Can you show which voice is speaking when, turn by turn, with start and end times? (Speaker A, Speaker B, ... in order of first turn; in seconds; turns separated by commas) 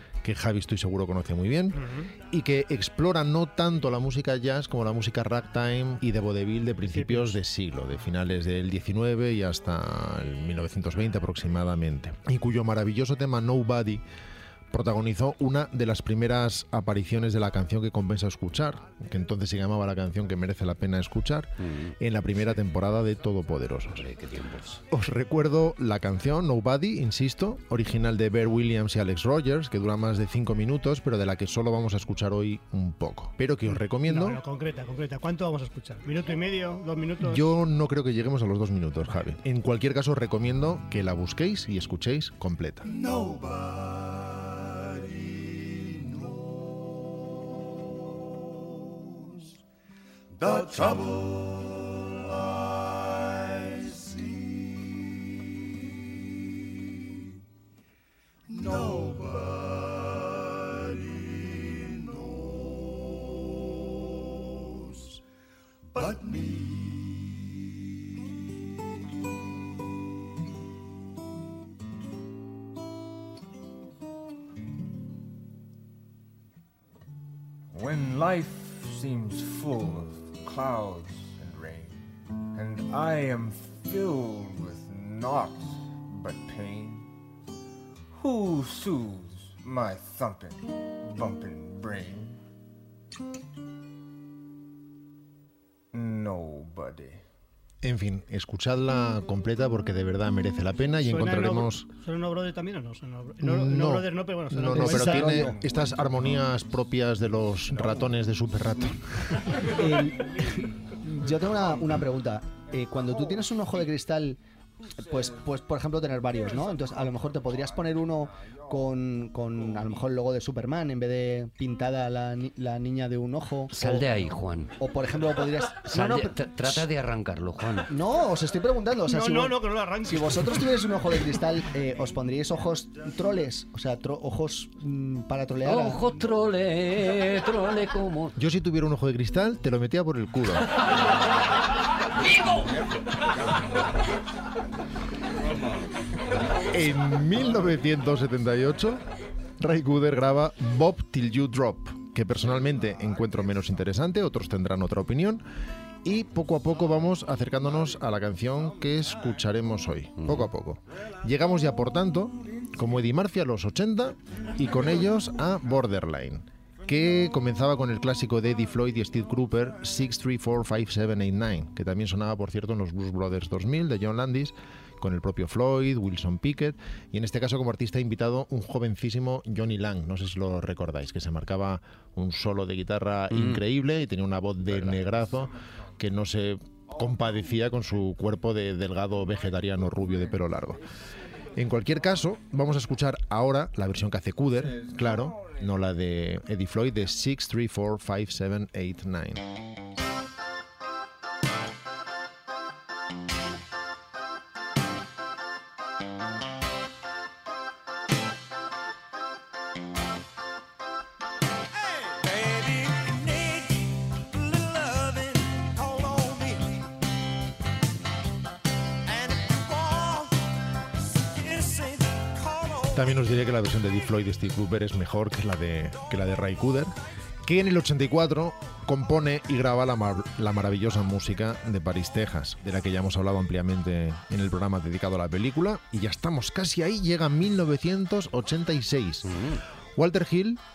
Speaker A: 0.2-14.0, Speaker B: 1.8-2.1, Speaker B: 6.9-7.3, Speaker A: 14.7-24.1, Speaker C: 21.6-21.9, Speaker C: 23.9-24.8, Speaker A: 24.9-34.4, Speaker B: 33.8-37.5, Speaker A: 37.2-42.9, Speaker D: 50.4-51.6, Speaker D: 53.7-54.1, Speaker D: 58.5-59.4, Speaker E: 58.5-59.4, Speaker D: 66.0-67.0, Speaker E: 77.7-82.0, Speaker E: 82.5-87.1, Speaker E: 88.1-92.4, Speaker E: 95.9-97.2, Speaker A: 97.8-101.9, Speaker B: 101.0-105.5, Speaker A: 103.4-109.6, Speaker F: 104.7-105.6, Speaker E: 105.4-106.5, Speaker F: 109.6-114.4, Speaker F: 115.0-124.1, Speaker E: 116.6-118.8, Speaker C: 123.7-124.7, Speaker F: 124.8-126.8, Speaker C: 125.8-127.9, Speaker F: 127.9-136.1, Speaker B: 129.1-130.8, Speaker C: 135.6-138.3, Speaker A: 138.3-140.7, Speaker A: 146.7-149.0, Speaker A: 149.6-155.4, Speaker A: 156.0-190.8, Speaker C: 160.2-160.5, Speaker C: 183.3-183.6, Speaker E: 184.7-185.8, Speaker A: 191.6-199.4, Speaker E: 194.5-195.6, Speaker D: 211.8-216.9, Speaker D: 219.0-220.4, Speaker D: 221.2-223.1, Speaker A: 222.9-239.4, Speaker C: 239.2-239.6, Speaker A: 239.9-240.6